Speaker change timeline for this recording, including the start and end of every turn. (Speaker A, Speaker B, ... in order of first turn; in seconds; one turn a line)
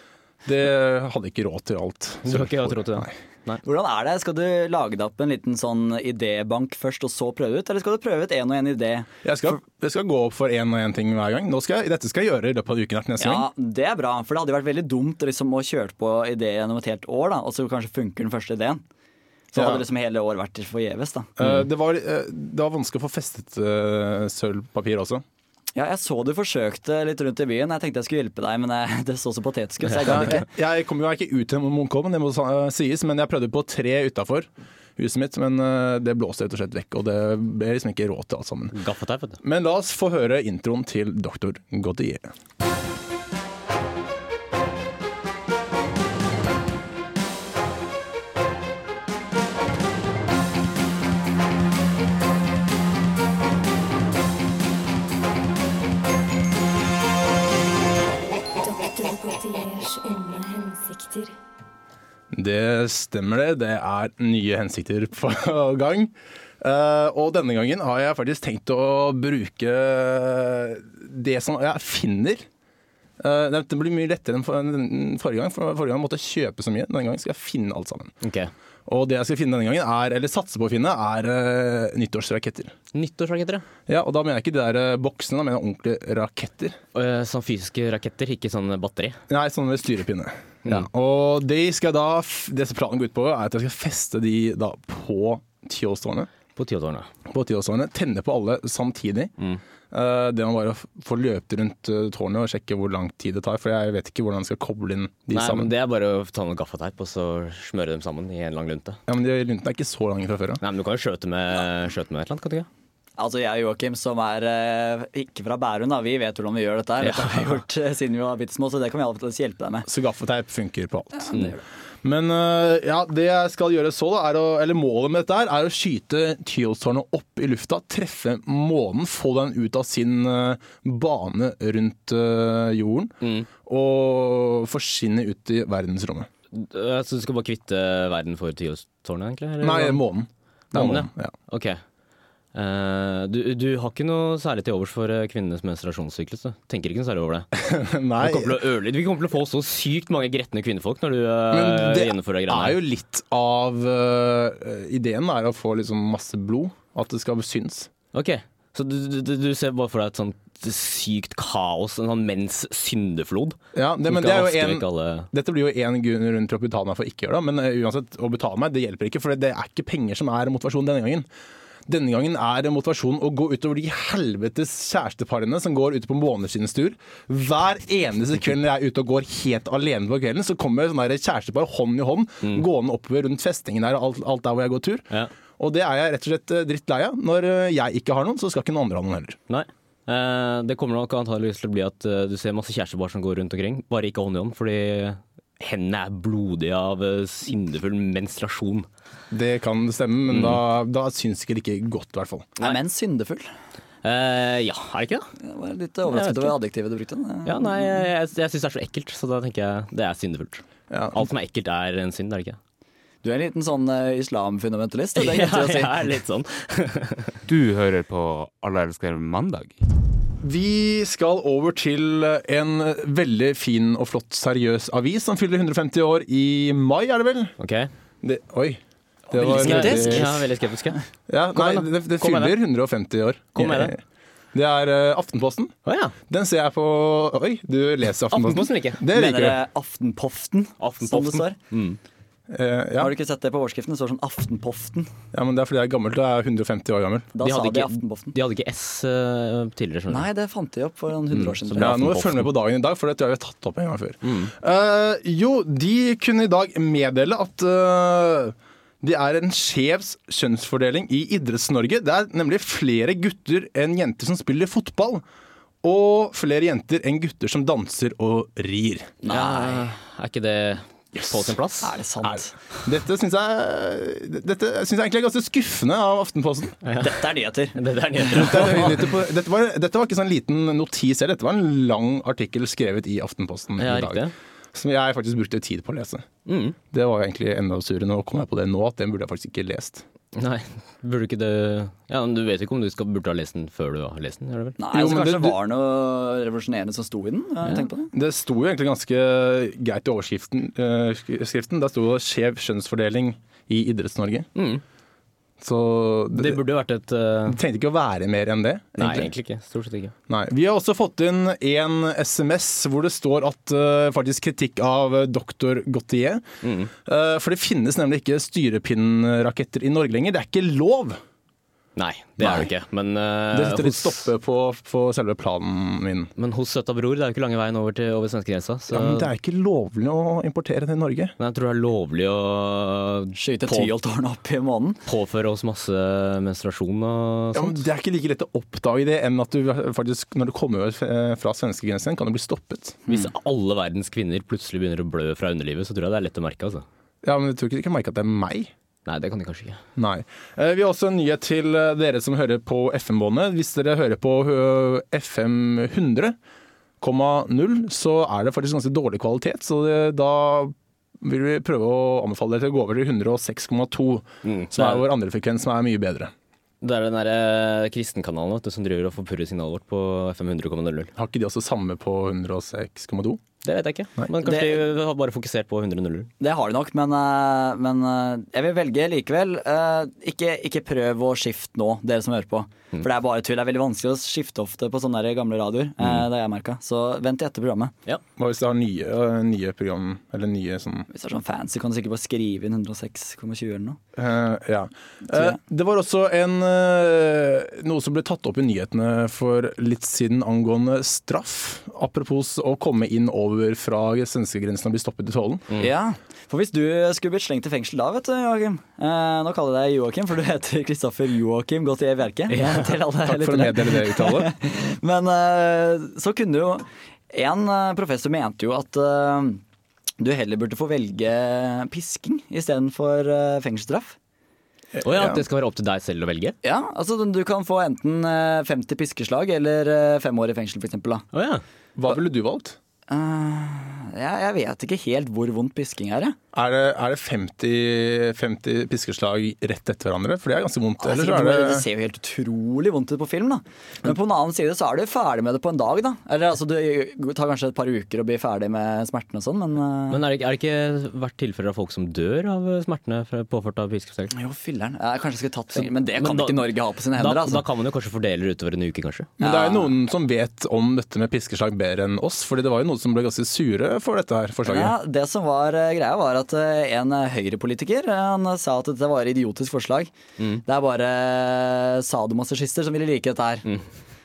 Speaker A: 0.5-3.1
Speaker B: 2.2-3.6
Speaker C: 3.6-9.5
Speaker A: 9.2-13.5
Speaker C: 13.2-18.8
Speaker C: 19.5-21.3
Speaker A: 19.6-19.8
Speaker A: 21.4-25.2
Speaker C: 25.8-30.5
Speaker B: 29.9-30.3
Speaker A: 30.1-38.8
Speaker B: 38.7-39.4
Speaker A: 39.4-42.3
Speaker D: 58.6-61.4
Speaker A: 62.3-72.5
Speaker A: 73.2-78.1
Speaker B: 78.2-78.5
Speaker A: 78.9-82.7
Speaker B: 82.9-83.7
Speaker A: 83.9-86.8
Speaker B: 86.9-89.2
Speaker A: 89.3-96.3
Speaker B: 96.5-97.1
Speaker A: 97.3-99.3
Speaker A: 99.9-105.7
Speaker B: 105.3-109.0
Speaker A: 109.1-110.6
Speaker B: 110.6-112.7
Speaker C: 113.2-119.9
Speaker B: 117.0-117.6
Speaker A: 119.9-121.3
Speaker C: 121.2-121.6
Speaker A: 122.0-136.3
Speaker B: 133.2-133.5
Speaker B: 136.5-140.0
Speaker A: 139.6-141.3
Speaker B: 140.7-141.8
Speaker B: 142.5-147.5
Speaker A: 147.6-148.6
Speaker B: 148.2-152.8
Speaker A: 151.5-157.9
Speaker B: 158.1-165.3
Speaker A: 163.7-171.3
Speaker A: 171.9-185.1
Speaker A: 185.6-189.4
Speaker B: 189.5-198.9
Speaker A: 199.3-202.5
Speaker B: 200.3-200.6
Speaker C: 202.6-203.5
Speaker B: 204.0-205.3
Speaker C: 205.4-208.0
Speaker B: 206.1-206.6
Speaker B: 207.4-212.6
Speaker A: 210.9-211.2
Speaker C: 213.2-216.0
Speaker B: 215.2-217.3
Speaker E: 217.5-219.8
Speaker A: 220.4-227.5
Speaker B: 227.6-227.9
Speaker A: 228.2-230.4
Speaker C: 229.3-230.4
Speaker B: 229.4-231.0
Speaker A: 231.3-234.0
Speaker B: 231.5-232.6
Speaker B: 233.6-233.9
Speaker A: 234.5-235.8
Speaker B: 235.9-236.2
Speaker A: 236.3-239.6
Speaker B: 238.3-239.0
Speaker C: 239.1-241.6
Speaker B: 240.8-242.0
Speaker A: 242.5-243.1
Speaker C: 243.0-245.1
Speaker A: 245.3-247.3
Speaker C: 247.3-248.3
Speaker B: 247.4-250.3
Speaker C: 250.1-251.9
Speaker B: 251.3-252.5
Speaker A: 251.8-265.2
Speaker B: 254.2-254.5
Speaker A: 265.8-269.1
Speaker B: 269.2-271.9
Speaker C: 269.2-269.9
Speaker A: 271.2-271.4
Speaker C: 271.8-272.5
Speaker A: 272.2-276.8
Speaker B: 276.8-279.0
Speaker C: 277.0-277.8
Speaker C: 278.3-278.7
Speaker A: 278.3-286.2
Speaker B: 283.8-284.3
Speaker B: 286.5-286.8
Speaker A: 286.9-290.0
Speaker B: 290.3-294.8
Speaker C: 294.8-298.1
Speaker A: 294.9-295.6
Speaker A: 298.1-304.5
Speaker B: 304.6-304.8
Speaker A: 305.6-306.6
Speaker B: 306.3-307.6
Speaker A: 307.5-309.3
Speaker B: 309.0-310.1
Speaker A: 310.3-316.4
Speaker B: 316.6-316.9
Speaker A: 317.1-321.2
Speaker B: 322.0-324.3
Speaker A: 322.4-322.7
Speaker A: 323.5-326.3
Speaker B: 326.4-329.3
Speaker A: 328.9-331.3
Speaker B: 331.4-333.9
Speaker C: 333.4-335.0
Speaker B: 335.1-337.9
Speaker A: 337.5-343.0
Speaker B: 343.1-346.9
Speaker A: 347.2-348.7
Speaker B: 349.1-349.8
Speaker A: 350.0-356.4
Speaker A: 357.0-366.3
Speaker B: 364.4-365.1
Speaker B: 366.8-371.1
Speaker A: 371.1-373.4
Speaker B: 373.6-376.3
Speaker C: 374.4-374.8
Speaker C: 376.4-387.9
Speaker A: 388.4-391.1
Speaker C: 391.1-394.0
Speaker A: 394.2-405.7
Speaker C: 395.3-395.6
Speaker C: 405.8-419.6
Speaker B: 412.5-413.0
Speaker A: 413.2-414.5
Speaker C: 420.2-424.2
Speaker A: 424.9-425.4
Speaker B: 425.0-426.6
Speaker C: 426.6-431.3
Speaker B: 431.3-431.6
Speaker A: 432.0-432.8
Speaker C: 433.1-436.4
Speaker A: 436.5-441.9
Speaker C: 441.0-450.2
Speaker B: 450.1-454.3
Speaker C: 454.3-457.6
Speaker B: 455.8-459.3
Speaker C: 459.4-459.9
Speaker A: 459.4-465.0
Speaker C: 464.6-470.1
Speaker C: 470.7-473.6